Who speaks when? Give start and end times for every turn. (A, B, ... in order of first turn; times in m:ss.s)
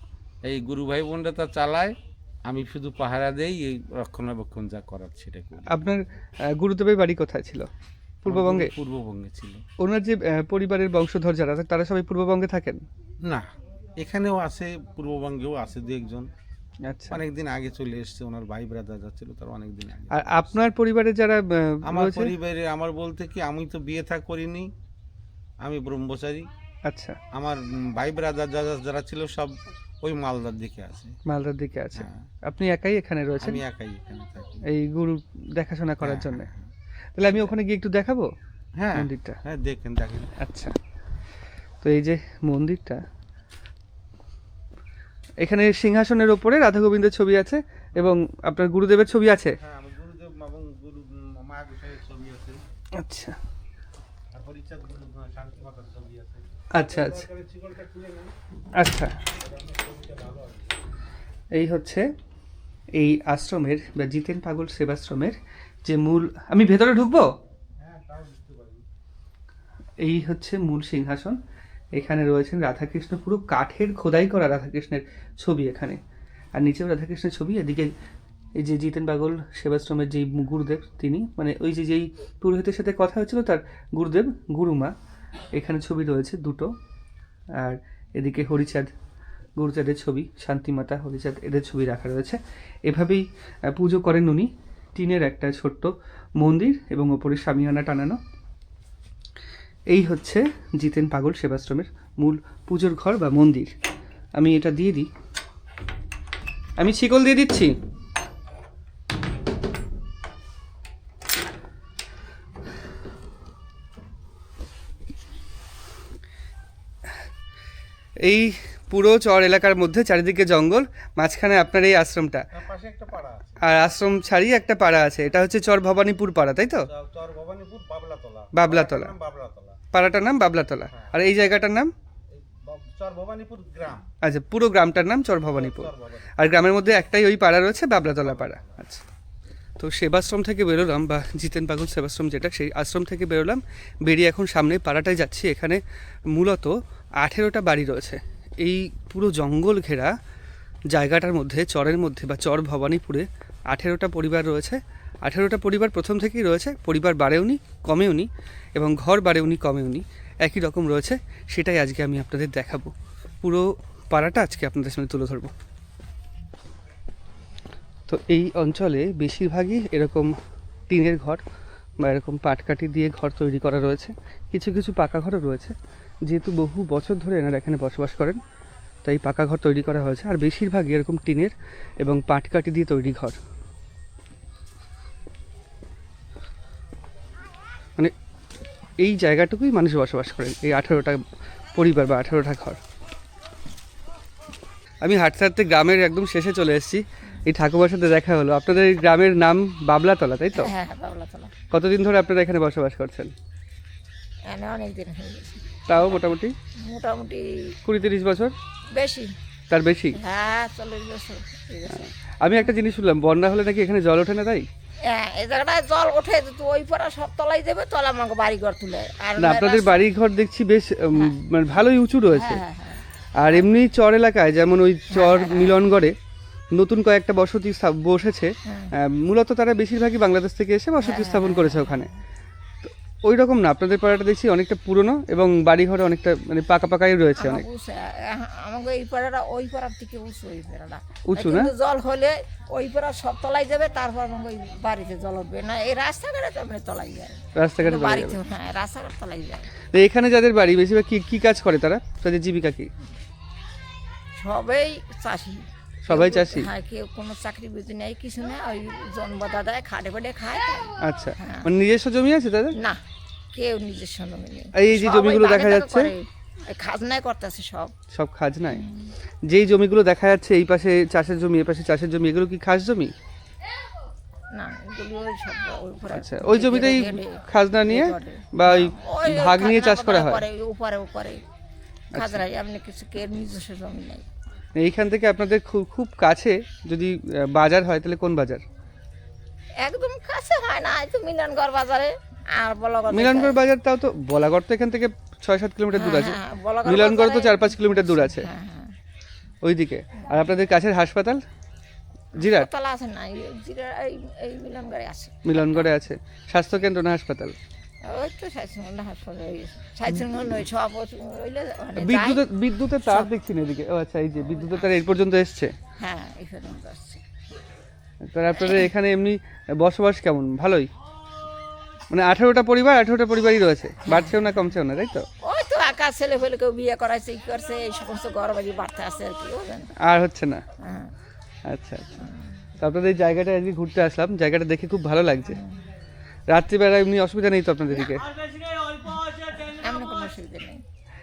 0:00.4-0:01.9 A
0:02.4-0:05.7 A
0:05.7-0:07.7 B
0:08.2-0:08.7 B
0:08.2-0:09.6 A
0:09.8-0:12.8 B
0:14.0-0:16.3 A
0:16.9-0:17.2 B
0:17.1-0:20.6 A
0:20.1-0:22.3 B
0:21.9-0:24.7 A
0:25.6-0:26.5 A
0:26.9-0:27.2 B
0:27.3-0:31.2 A
0:31.3-0:33.6 B
0:32.0-0:32.2 A
0:33.4-0:34.6 A
0:34.7-0:36.5 B
0:36.0-0:36.7 A
0:37.2-0:38.3 B
0:38.8-0:40.3 A
0:38.9-0:39.4 B
0:40.4-0:40.7 B
0:41.8-0:43.0 B
0:45.4-0:49.6 B
0:49.6-0:52.6 A
0:53.0-0:53.4 B
0:54.3-0:58.3 A
0:56.7-0:57.2 B
0:58.8-0:59.1 B
0:59.4-1:00.7 A
1:01.5-1:02.0 B
1:02.9-1:07.3 B
1:07.8-1:08.8 A
1:10.0-1:11.4 B
1:11.9-1:16.0 B
1:16.5-1:17.9 B
1:18.6-1:24.9 B
1:25.5-1:26.7 B
1:27.6-1:28.9 B
1:29.6-1:38.2 B
1:39.9-1:43.7 B
1:44.4-1:45.1 B
1:46.8-1:47.8 B
1:58.2-2:02.4 B
2:02.5-2:03.6 A
2:03.6-2:06.9 B
2:06.8-2:09.8 A
2:08.5-2:09.1 B
2:09.9-2:11.9 B
2:10.9-2:11.2 A
2:12.3-2:14.0 A
2:14.2-2:19.0 B
2:15.5-2:16.3 A
2:18.2-2:18.8 A
2:19.8-2:30.1 B
2:30.9-2:45.5 B
2:48.1-2:50.3 B
2:50.9-2:51.4 B
2:52.0-2:58.4 B
2:59.0-3:03.4 B
3:09.0-3:11.2 B
3:11.7-3:12.8 B
3:15.0-3:20.7 B
3:20.6-3:21.5 C
3:21.7-3:23.3 B
3:24.5-3:26.2 C
3:25.9-3:26.5 B
3:26.8-3:27.8 C
3:27.8-3:28.5 B
3:28.9-3:29.3 C
3:29.7-3:30.2 B
3:30.1-3:32.7 C
3:31.9-3:34.7 B
3:35.0-3:40.0 C
3:39.4-3:42.6 B
3:42.3-3:43.6 C
3:43.4-3:46.2 B
3:45.1-3:45.7 C
3:46.7-3:52.1 B
3:51.0-3:52.1 C
3:52.8-3:57.6 B
3:57.4-4:09.7 C
4:01.3-4:01.7 B
4:07.6-4:08.4 B
4:09.9-4:12.9 B
4:14.3-4:21.7 C
4:16.0-4:16.7 B
4:21.0-4:22.8 B
4:22.8-4:23.0 C
4:23.5-4:27.9 C
4:24.8-4:26.1 B
4:28.1-4:28.8 B
4:28.7-4:29.1 C
4:29.5-4:33.1 B
4:34.5-4:41.4 C
4:36.1-4:40.4 B
4:42.1-4:42.4 B
4:42.1-4:44.2 C
4:44.8-4:48.6 B
4:49.8-4:53.6 C
4:53.1-4:58.5 B
4:55.9-4:58.9 C
4:59.6-5:01.4 B
5:02.4-5:02.7 B
5:02.4-5:05.9 C
5:05.4-5:07.5 B
5:08.0-5:12.4 C
5:12.0-5:15.7 B
5:14.6-5:14.9 C
5:16.0-5:17.2 C
5:18.2-5:20.9 B
5:18.6-5:18.9 C
5:22.1-5:25.3 B
5:24.1-5:24.4 C
5:25.4-5:29.9 C
5:30.0-5:30.6 B
5:30.8-5:31.1 C
5:31.7-5:32.1 B
5:32.2-5:32.4 C
5:32.8-5:35.6 B
5:36.5-5:38.2 B
5:39.0-5:40.8 C